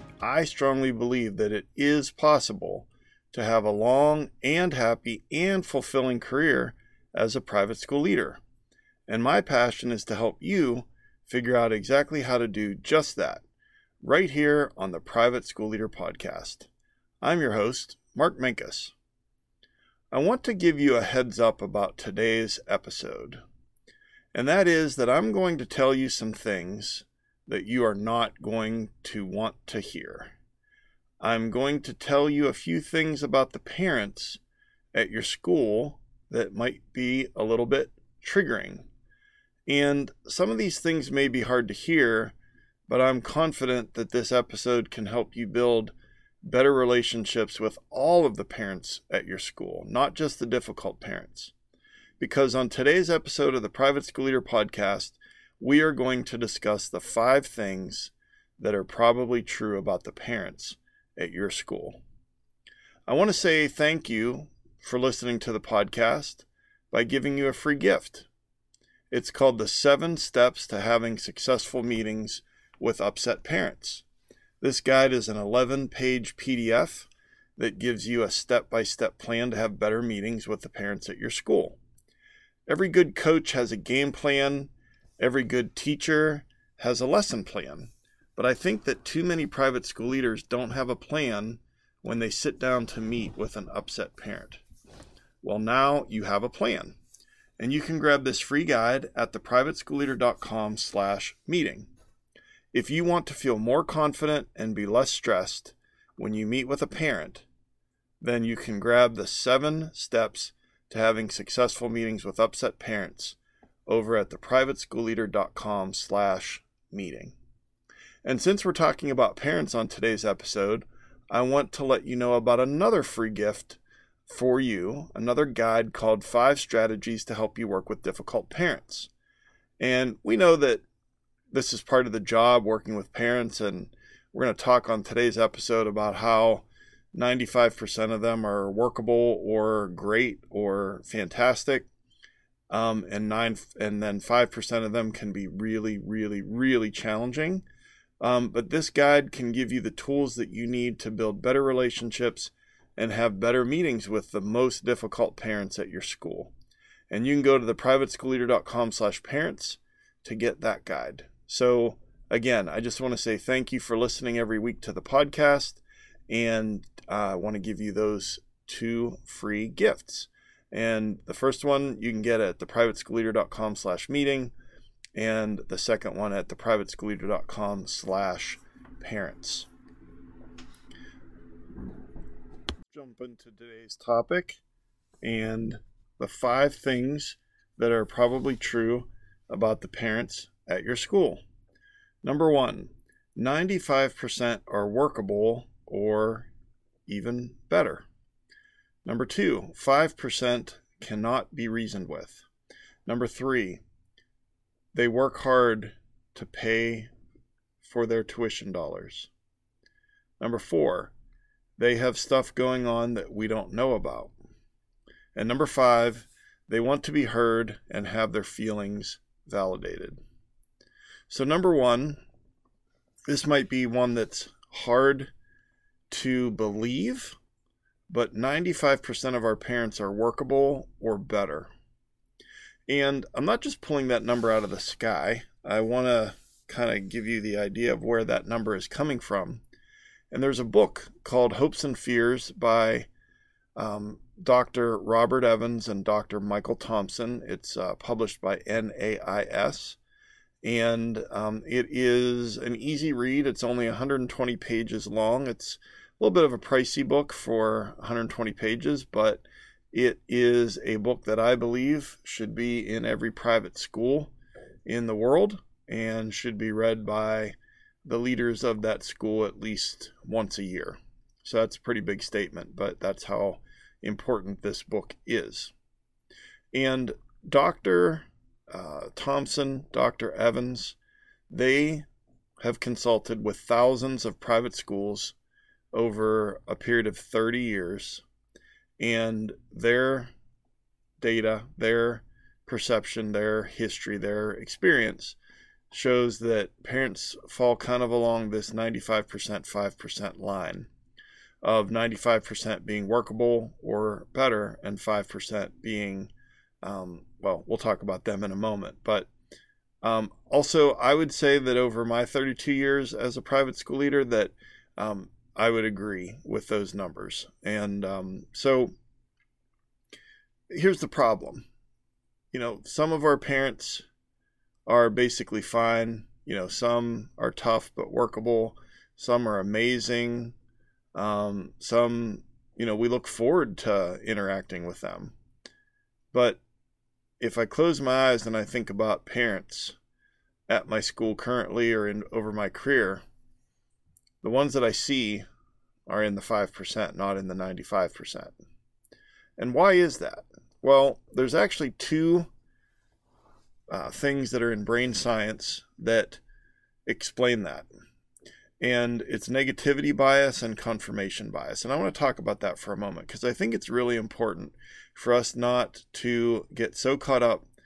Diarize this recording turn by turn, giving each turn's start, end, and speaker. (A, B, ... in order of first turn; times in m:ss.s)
0:00.2-0:08.4 A
0:09.1-0:13.4 A
0:14.0-0:16.7 A
0:17.2-0:18.9 A
0:20.1-0:23.4 A
0:24.3-0:30.3 A
0:31.2-0:34.4 A
0:34.9-0:38.9 A
0:39.7-0:42.3 A
0:42.9-0:51.5 A
0:52.2-1:02.0 A
1:03.1-1:08.3 A
1:09.1-1:14.0 A
1:14.6-1:21.8 A
1:22.7-1:34.6 A
1:35.4-1:37.0 A
1:37.6-1:41.9 A
1:42.7-1:47.4 A
1:48.2-1:57.4 A
1:58.2-2:09.1 A
2:09.8-2:10.8 A
2:11.5-2:21.9 A
2:22.7-2:27.6 A
2:28.2-2:36.5 A
2:37.1-2:54.5 A
2:55.1-2:59.7 A
3:02.9-3:04.6 A
3:05.2-3:11.4 A
3:12.2-3:16.5 A
3:17.1-3:18.1 A
3:19.0-3:22.4 A
3:23.0-3:23.8 A
3:24.9-3:27.1 A
3:27.8-3:29.3 A
3:30.4-3:31.1 A
3:31.8-3:34.3 A
3:35.3-3:40.2 A
3:41.3-3:42.2 A
3:43.2-3:45.3 A
3:46.1-3:47.4 A
3:48.1-3:51.7 A
3:52.9-3:59.6 A
4:00.3-4:03.1 A
4:03.8-4:10.0 A
4:10.6-4:24.3 A
4:24.8-4:35.7 A
4:36.7-4:41.0 A
4:41.5-4:42.1 A
4:42.6-4:45.4 A
4:45.9-4:48.2 A
4:49.0-4:50.3 A
4:51.2-4:55.4 A
4:55.9-5:00.9 A
5:01.6-5:09.3 A
5:10.0-5:18.9 A
5:20.7-5:21.6 A
5:22.5-5:24.0 A
5:24.9-5:30.6 A
5:31.1-5:35.3 A
5:36.3-5:36.6 A
5:37.4-5:40.0 A
5:40.7-5:43.2 A
5:44.4-5:45.4 A
5:46.1-5:48.5 A
5:49.6-5:52.5 A
5:53.9-5:56.4 A
5:57.0-5:57.9 A
5:58.8-6:07.7 A